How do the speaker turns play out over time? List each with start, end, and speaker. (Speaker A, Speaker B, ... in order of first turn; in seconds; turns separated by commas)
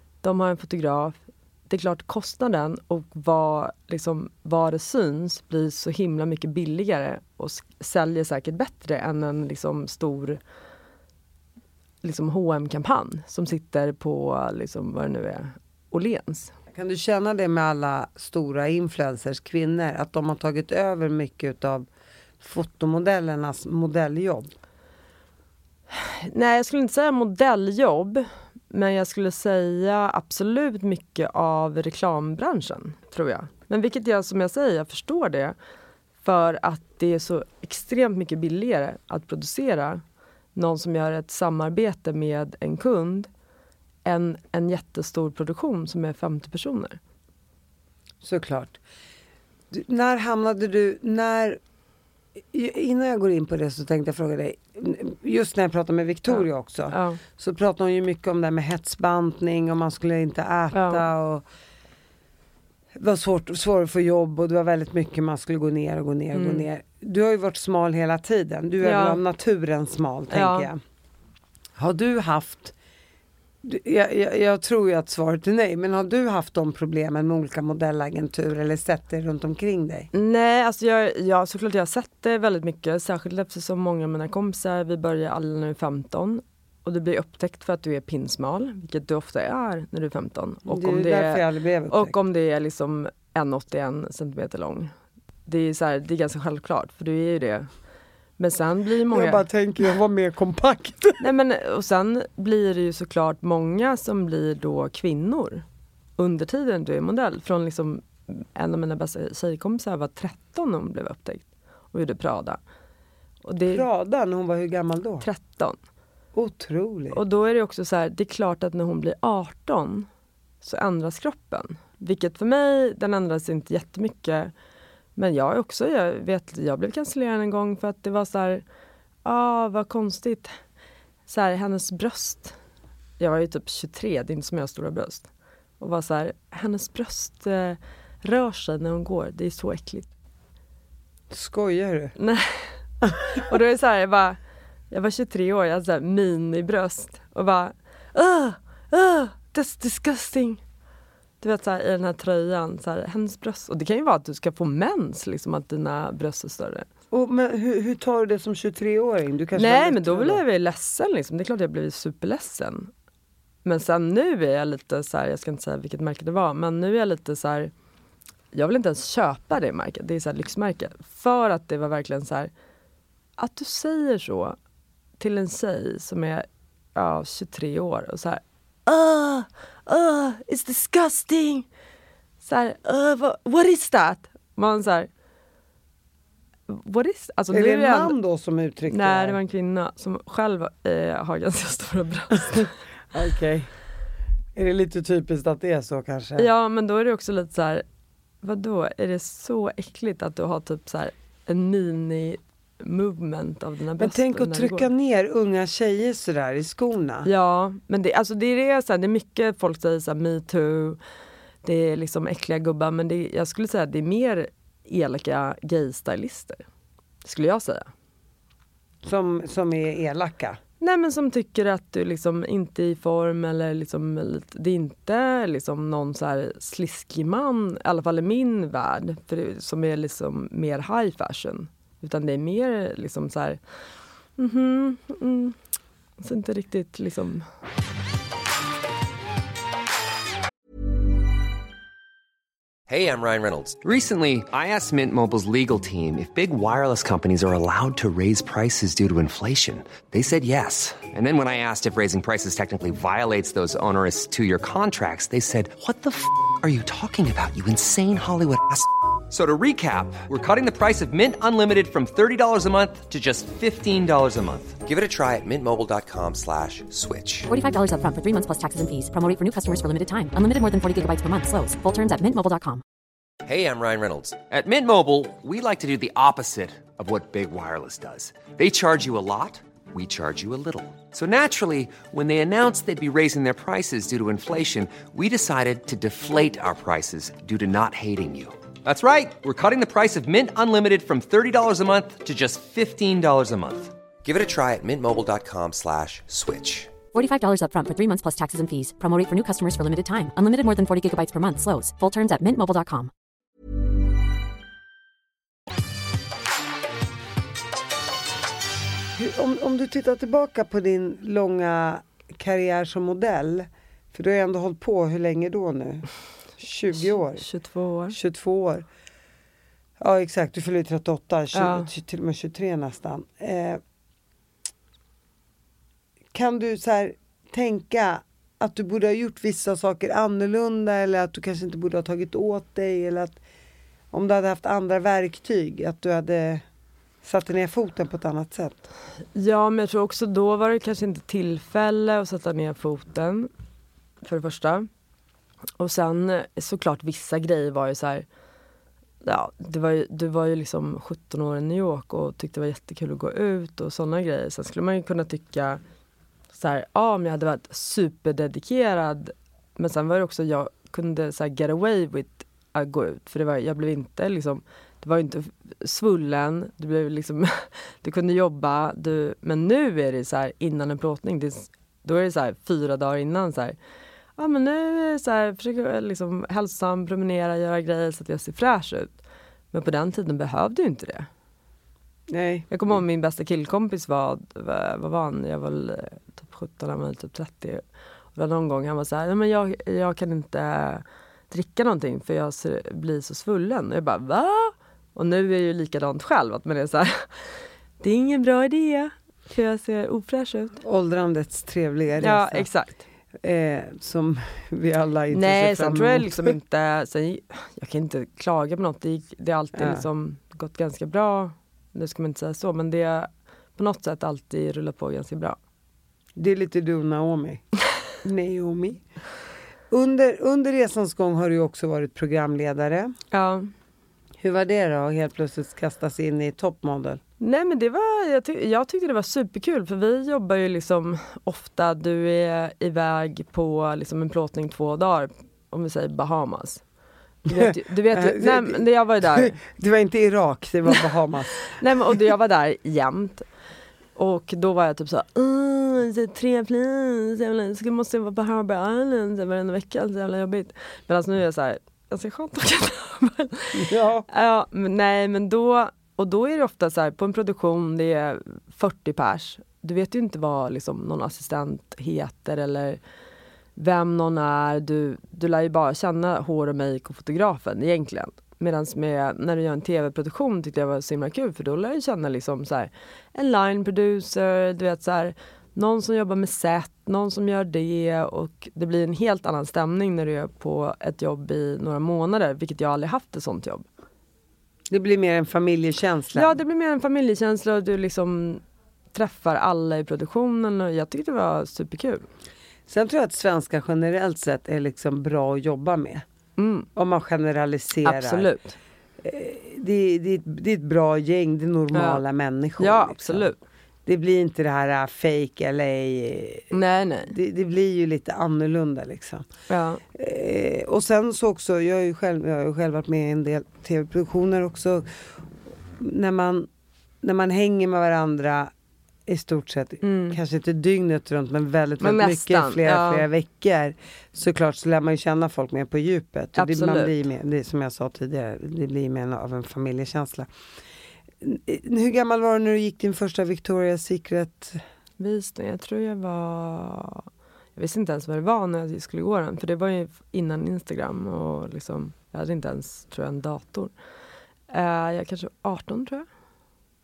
Speaker A: 0.2-10.4, Speaker A: 12.0-16.5, Speaker B: 16.7-21.9, Speaker B: 22.4-24.5, Speaker A: 25.9-35.5, Speaker A: 36.2-40.0, Speaker A: 40.5-43.3, Speaker A: 44.0-47.0, Speaker B: 48.2-48.8, Speaker B: 49.7-51.6, Speaker B: 52.5-61.4, Speaker A: 56.3-57.2, Speaker A: 60.7-61.0, Speaker B: 62.9-70.8, Speaker A: 66.3-66.6, Speaker A: 68.8-69.2, Speaker A: 70.3-70.7, Speaker B: 71.8-72.7, Speaker B: 73.6-80.1, Speaker A: 80.1-94.9, Speaker B: 90.7-92.1, Speaker A: 95.5-97.7, Speaker A: 98.4-99.4, Speaker B: 99.1-101.3, Speaker A: 101.2-105.6, Speaker A: 106.2-112.6, Speaker A: 113.4-113.8, Speaker B: 113.6-115.2, Speaker A: 115.2-115.8, Speaker B: 116.3-117.2, Speaker A: 117.1-120.1, Speaker A: 120.6-124.5, Speaker A: 125.2-128.6, Speaker A: 129.2-130.6, Speaker A: 131.3-132.6, Speaker A: 133.2-135.3, Speaker A: 135.8-140.1, Speaker B: 141.3-142.1, Speaker A: 142.2-144.4, Speaker A: 144.9-150.6, Speaker A: 151.4-156.9, Speaker B: 157.1-160.4, Speaker A: 159.5-162.9, Speaker A: 163.6-167.7, Speaker A: 168.5-172.5, Speaker A: 173.4-174.6, Speaker A: 175.2-181.7, Speaker A: 182.4-185.1, Speaker A: 186.7-188.1, Speaker B: 187.5-189.4, Speaker A: 188.9-192.7, Speaker B: 192.5-193.7, Speaker B: 194.5-196.5, Speaker A: 196.4-197.8, Speaker A: 198.4-204.9, Speaker B: 204.0-207.3, Speaker A: 207.2-211.0, Speaker A: 211.6-216.6, Speaker A: 217.2-217.9, Speaker B: 219.0-220.6, Speaker A: 220.8-233.6, Speaker A: 234.4-235.6, Speaker A: 236.2-237.5, Speaker C: 242.9-267.5, Speaker D: 267.5-272.8, Speaker C: 273.4-296.9, Speaker D: 297.1-303.1, Speaker B: 309.1-317.4, Speaker A: 316.9-318.2, Speaker B: 318.1-318.9, Speaker B: 320.0-323.8, Speaker A: 321.5-321.9, Speaker B: 326.3-333.4, Speaker B: 334.1-336.6, Speaker B: 337.2-338.8, Speaker A: 339.3-343.5, Speaker A: 344.2-344.9, Speaker A: 345.8-348.2, Speaker A: 349.2-355.8, Speaker A: 356.5-373.8, Speaker A: 374.4-379.1, Speaker A: 379.7-381.3, Speaker B: 382.3-382.7, Speaker A: 382.7-387.8, Speaker A: 388.3-400.8, Speaker B: 400.8-402.7, Speaker A: 402.2-403.0, Speaker B: 403.4-406.5, Speaker A: 405.3-415.6, Speaker B: 409.7-410.0, Speaker B: 416.4-417.6, Speaker B: 418.2-419.0, Speaker B: 419.9-423.1, Speaker A: 423.3-423.7, Speaker B: 424.4-427.2, Speaker A: 427.4-436.8, Speaker A: 437.4-439.6, Speaker B: 437.5-441.7, Speaker A: 441.7-443.4, Speaker A: 444.1-463.0, Speaker B: 453.7-454.2, Speaker A: 463.8-483.8, Speaker B: 484.9-486.5, Speaker A: 486.3-488.6, Speaker A: 489.1-492.2, Speaker B: 492.9-496.2, Speaker A: 496.6-496.9, Speaker B: 496.9-498.5, Speaker A: 498.0-498.8, Speaker B: 499.2-503.5, Speaker A: 501.9-502.2, Speaker A: 502.8-503.6, Speaker B: 504.1-506.7, Speaker A: 506.7-507.3, Speaker B: 507.3-509.5, Speaker A: 509.7-510.0, Speaker B: 510.1-515.1, Speaker B: 516.0-516.7, Speaker B: 517.2-518.7, Speaker B: 519.2-530.5, Speaker A: 520.0-520.4, Speaker A: 522.0-523.3, Speaker A: 526.5-527.1, Speaker B: 531.4-534.8, Speaker A: 535.2-543.9, Speaker A: 544.7-546.3